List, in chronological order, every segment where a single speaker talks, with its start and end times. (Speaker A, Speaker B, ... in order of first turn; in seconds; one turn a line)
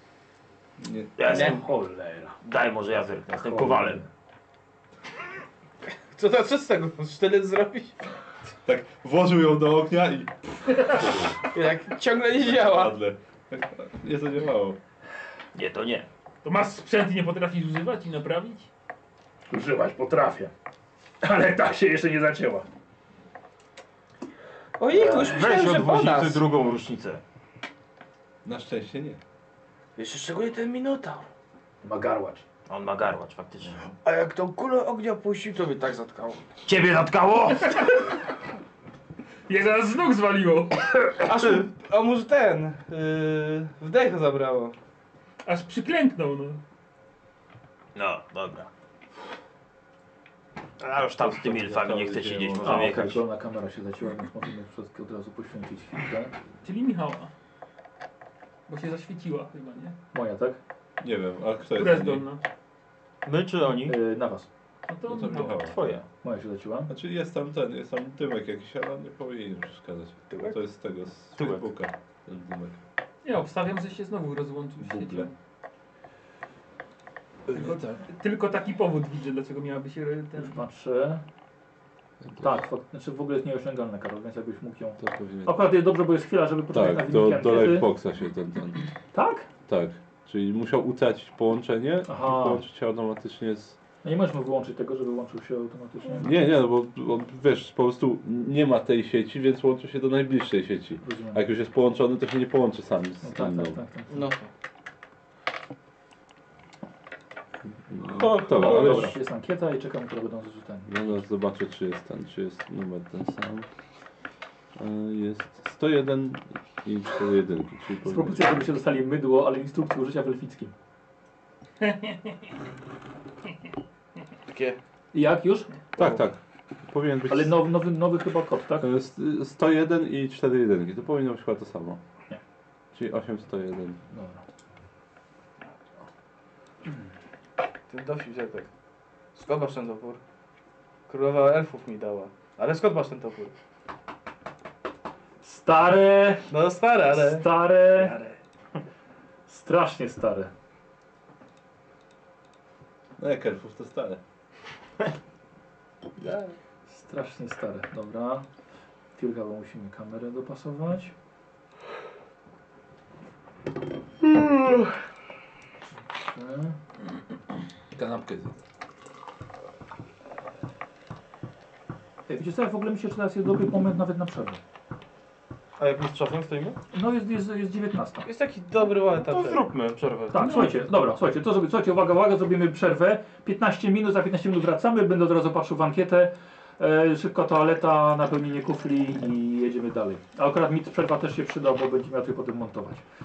Speaker A: 0.8-1.1
Speaker B: 1.2-1.6
Speaker C: 1.2-1.6
Speaker D: 1.2-2.4
Speaker B: 2.4-4.0
Speaker D: 3.4-4.1
Speaker C: 6.0-7.9
Speaker A: 8.6-11.3
Speaker C: 11.4-12.9
Speaker A: 12.4-14.8
Speaker B: 15.5-16.1
Speaker E: 16.4-18.7
Speaker D: 19.5-20.5
Speaker D: 21.2-22.6
Speaker C: 24.8-26.4
Speaker D: 24.9-25.4
Speaker B: 24.9-27.2
Speaker A: 28.4-29.2
Speaker C: 29.9-31.3
Speaker D: 31.8-32.4
Speaker B: 32.7-33.8
Speaker C: 34.0-36.5
Speaker B: 36.6-37.8
Speaker E: 39.5-41.1
Speaker C: 41.2-44.7
Speaker E: 45.4-46.6
Speaker B: 47.9-48.7
Speaker B: 50.8-53.2
Speaker A: 51.2-53.0
Speaker D: 52.6-56.3
Speaker E: 56.6-57.3
Speaker E: 58.7-60.0
Speaker D: 60.1-60.6
Speaker A: 61.0-62.2
Speaker E: 61.7-62.4
Speaker B: 63.2-64.0
Speaker D: 63.8-64.5
Speaker E: 64.9-65.6
Speaker A: 65.1-66.0
Speaker B: 65.5-66.0
Speaker D: 66.2-66.9
Speaker A: 66.9-72.8
Speaker B: 71.4-71.6
Speaker E: 73.2-75.3
Speaker A: 74.8-75.3
Speaker A: 77.5-78.0
Speaker E: 77.5-80.6
Speaker D: 80.4-81.2
Speaker A: 82.3-82.5
Speaker D: 82.4-87.9
Speaker A: 85.0-85.5
Speaker A: 86.7-88.9
Speaker D: 89.1-89.5
Speaker A: 89.7-93.8
Speaker D: 92.1-92.6
Speaker D: 94.0-96.4
Speaker A: 96.2-103.8
Speaker D: 101.0-101.4
Speaker D: 103.2-104.3
Speaker C: 104.1-104.5
Speaker A: 107.8-109.2
Speaker C: 108.1-109.1
Speaker D: 108.4-110.9
Speaker A: 110.8-113.7
Speaker A: 114.8-118.7
Speaker D: 118.0-120.7
Speaker E: 121.8-122.3
Speaker C: 124.5-124.8
Speaker D: 125.1-125.7
Speaker A: 126.0-127.6
Speaker D: 127.3-128.9
Speaker A: 128.8-132.0
Speaker A: 132.9-134.0
Speaker D: 134.1-134.4
Speaker C: 137.9-138.7
Speaker C: 139.3-140.2
Speaker C: 141.1-143.5
Speaker D: 145.4-146.5
Speaker C: 146.5-148.3
Speaker D: 147.0-148.2
Speaker D: 149.5-150.5
Speaker A: 153.2-154.2
Speaker C: 156.2-156.6
Speaker D: 156.9-158.5
Speaker D: 159.2-161.1
Speaker D: 166.2-166.8
Speaker A: 167.9-168.6
Speaker D: 172.3-174.6
Speaker B: 175.8-176.8
Speaker D: 176.9-178.2
Speaker C: 178.2-179.7
Speaker B: 179.1-180.7
Speaker D: 180.3-193.0